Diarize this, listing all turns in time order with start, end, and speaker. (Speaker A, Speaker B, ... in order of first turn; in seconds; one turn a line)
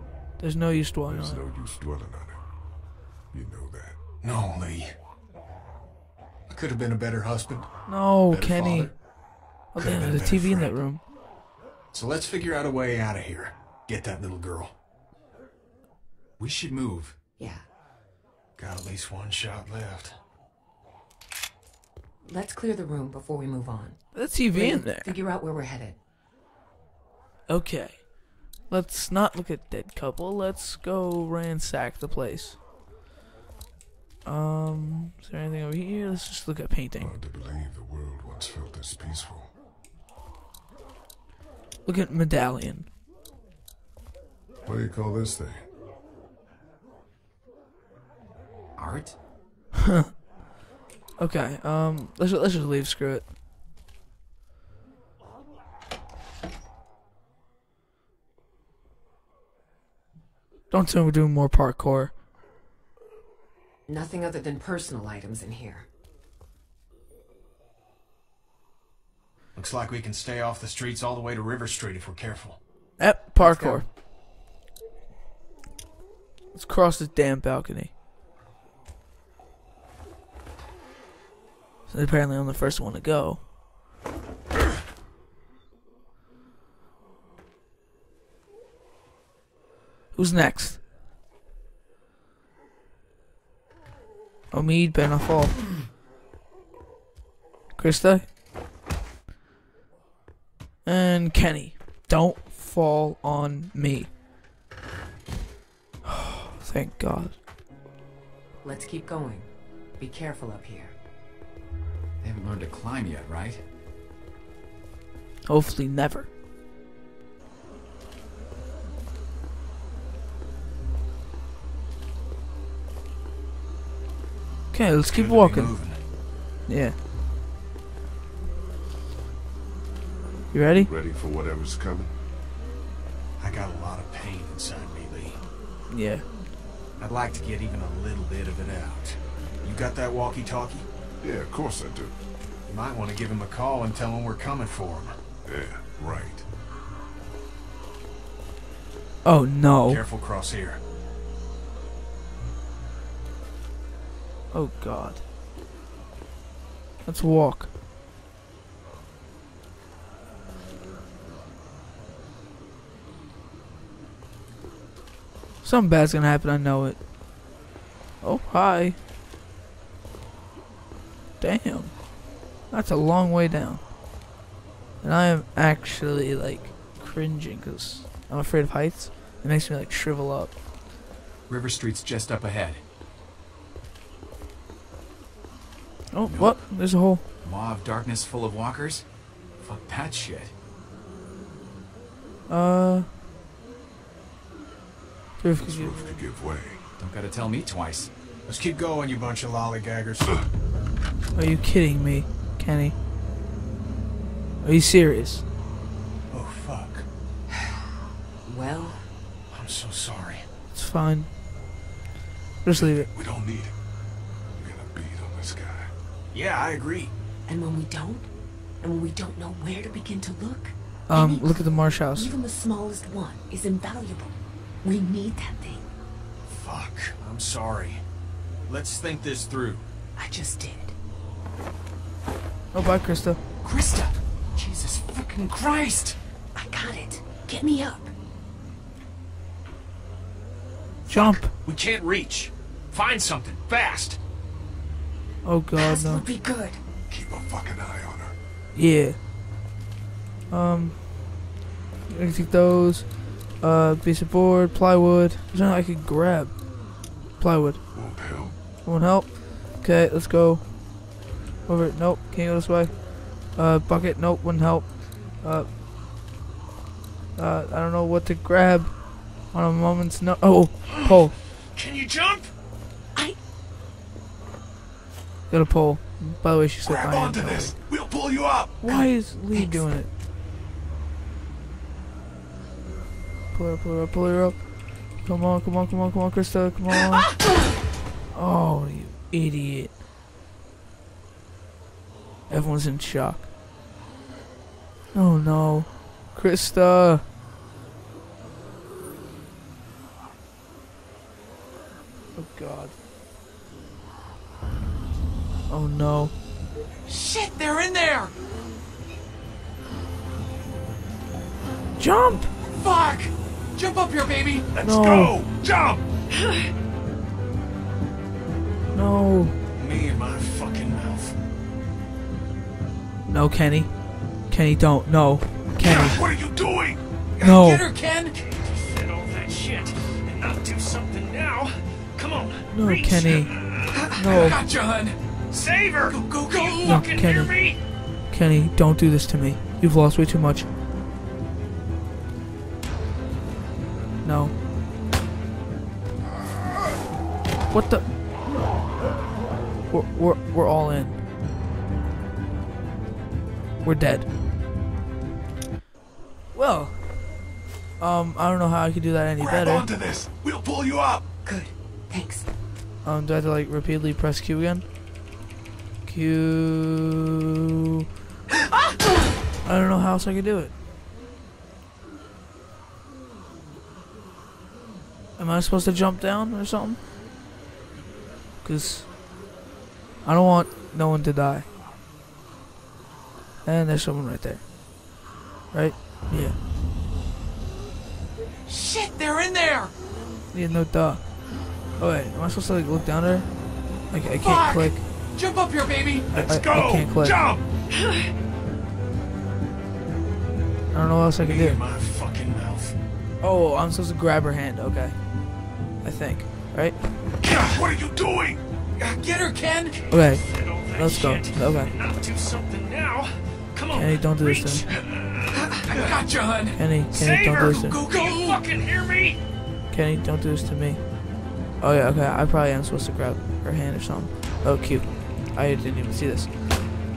Speaker A: 0.4-1.4
Speaker B: 1.1-2.4
Speaker B: 3.3-4.0
Speaker C: 4.2-4.9
Speaker C: 6.5-7.8
Speaker A: 7.9-9.0
Speaker D: 8.3-8.9
Speaker A: 9.7-11.0
Speaker C: 9.7-10.8
Speaker C: 11.9-14.7
Speaker D: 16.4-17.1
Speaker E: 17.4-17.6
Speaker C: 18.6-20.2
Speaker E: 22.2-25.9
Speaker A: 24.1-25.1
Speaker A: 27.5-28.1
Speaker A: 28.7-32.6
Speaker A: 34.2-37.1
Speaker B: 37.0-39.5
Speaker A: 41.9-42.9
Speaker B: 44.6-45.6
Speaker D: 48.8-49.1
Speaker A: 51.2-53.2
Speaker A: 60.7-62.1
Speaker E: 63.9-65.9
Speaker C: 69.5-72.6
Speaker A: 73.0-73.8
Speaker E: 73.4-73.8
Speaker A: 76.5-77.9
Speaker A: 81.9-83.4
Speaker A: 90.1-90.8
Speaker A: 94.5-95.6
Speaker A: 97.8-98.2
Speaker A: 100.8-104.1
Speaker A: 106.0-107.3
Speaker E: 108.6-110.9
Speaker D: 112.2-113.6
Speaker A: 115.5-116.3
Speaker A: 124.7-125.8
Speaker C: 125.1-126.0
Speaker A: 126.7-126.9
Speaker A: 130.5-130.9
Speaker B: 130.7-132.1
Speaker C: 133.4-135.4
Speaker A: 135.9-136.2
Speaker C: 137.0-140.9
Speaker B: 141.2-142.2
Speaker C: 142.7-145.2
Speaker B: 145.4-146.4
Speaker A: 149.2-150.0
Speaker C: 149.8-150.8
Speaker A: 154.5-155.2
Speaker A: 157.0-157.7
Speaker A: 165.6-167.0
Speaker A: 168.2-169.0
Speaker A: 171.4-171.9
Speaker A: 172.7-173.8
Speaker A: 175.0-180.5
Speaker D: 181.5-182.8
Speaker A: 186.1-187.2
Speaker D: 186.3-186.7
Speaker D: 187.4-189.0
Speaker D: 189.6-190.5
Speaker A: 192.5-193.1
Speaker A: 195.4-195.9
Speaker B: 195.6-196.8
Speaker D: 197.0-198.1
Speaker C: 198.5-200.5
Speaker A: 201.3-202.9
Speaker A: 204.6-205.4
Speaker C: 206.3-207.1
Speaker E: 208.4-209.1
Speaker C: 209.5-210.4
Speaker A: 210.7-211.3
Speaker A: 212.6-213.1
Speaker B: 212.7-213.7
Speaker B: 214.6-215.9
Speaker C: 216.3-217.1
Speaker E: 217.5-218.3
Speaker E: 218.8-225.9
Speaker A: 221.1-222.3
Speaker C: 226.4-228.0
Speaker C: 228.7-229.8
Speaker E: 230.2-230.9
Speaker A: 232.7-233.4
Speaker D: 233.6-236.2
Speaker E: 236.5-238.1
Speaker C: 241.1-244.2
Speaker A: 241.1-241.5
Speaker A: 245.4-246.2
Speaker E: 245.8-246.8
Speaker B: 247.1-248.3
Speaker A: 248.7-249.2
Speaker A: 250.5-251.0
Speaker A: 252.1-256.6
Speaker A: 257.4-257.8
Speaker B: 257.9-258.5
Speaker A: 258.8-260.6
Speaker A: 261.6-265.7
Speaker A: 267.4-269.0
Speaker A: 269.5-271.3
Speaker C: 271.7-272.5
Speaker A: 275.5-277.7
Speaker B: 276.8-278.9
Speaker A: 278.8-280.1
Speaker E: 278.9-279.8
Speaker A: 283.5-284.6
Speaker A: 285.2-287.3
Speaker A: 288.3-289.9
Speaker A: 292.5-293.5
Speaker A: 295.1-297.2
Speaker A: 302.4-302.9
Speaker A: 305.7-306.3
Speaker D: 307.1-308.3
Speaker A: 312.0-312.5
Speaker D: 312.7-314.7
Speaker B: 314.8-316.0
Speaker A: 314.8-315.4
Speaker A: 318.9-319.5
Speaker C: 319.7-321.4
Speaker A: 323.3-323.9
Speaker A: 324.5-326.2
Speaker B: 325.8-327.0
Speaker A: 327.4-327.8
Speaker D: 327.4-328.3
Speaker C: 328.3-334.0
Speaker A: 332.7-333.5
Speaker D: 333.9-335.2
Speaker A: 334.1-334.6
Speaker C: 335.5-337.8
Speaker D: 336.1-337.1
Speaker A: 336.8-337.5
Speaker A: 338.3-340.7
Speaker A: 344.2-344.5
Speaker A: 347.7-348.0
Speaker A: 349.9-351.2
Speaker A: 353.8-354.3
Speaker A: 356.5-357.0
Speaker A: 358.0-359.9
Speaker B: 359.4-361.3
Speaker E: 361.4-362.5
Speaker A: 363.0-364.8
Speaker A: 366.1-367.4
Speaker A: 369.6-370.7
Speaker A: 375.4-377.0
Speaker A: 378.6-379.1
Speaker A: 380.2-381.7
Speaker A: 383.6-384.6
Speaker A: 385.7-386.6
Speaker D: 388.7-389.9
Speaker A: 390.5-391.2
Speaker A: 392.0-393.5
Speaker A: 394.1-395.0
Speaker D: 394.4-396.4
Speaker B: 396.3-397.6
Speaker A: 396.4-397.4
Speaker A: 400.9-401.8
Speaker C: 401.4-402.9
Speaker A: 403.4-405.1
Speaker A: 406.0-406.9
Speaker B: 407.4-408.6
Speaker D: 409.0-410.0
Speaker A: 410.1-411.9
Speaker C: 410.1-415.1
Speaker A: 413.9-414.8
Speaker D: 415.7-418.6
Speaker A: 416.7-418.0
Speaker C: 417.1-419.4
Speaker A: 419.9-421.0
Speaker A: 421.8-426.5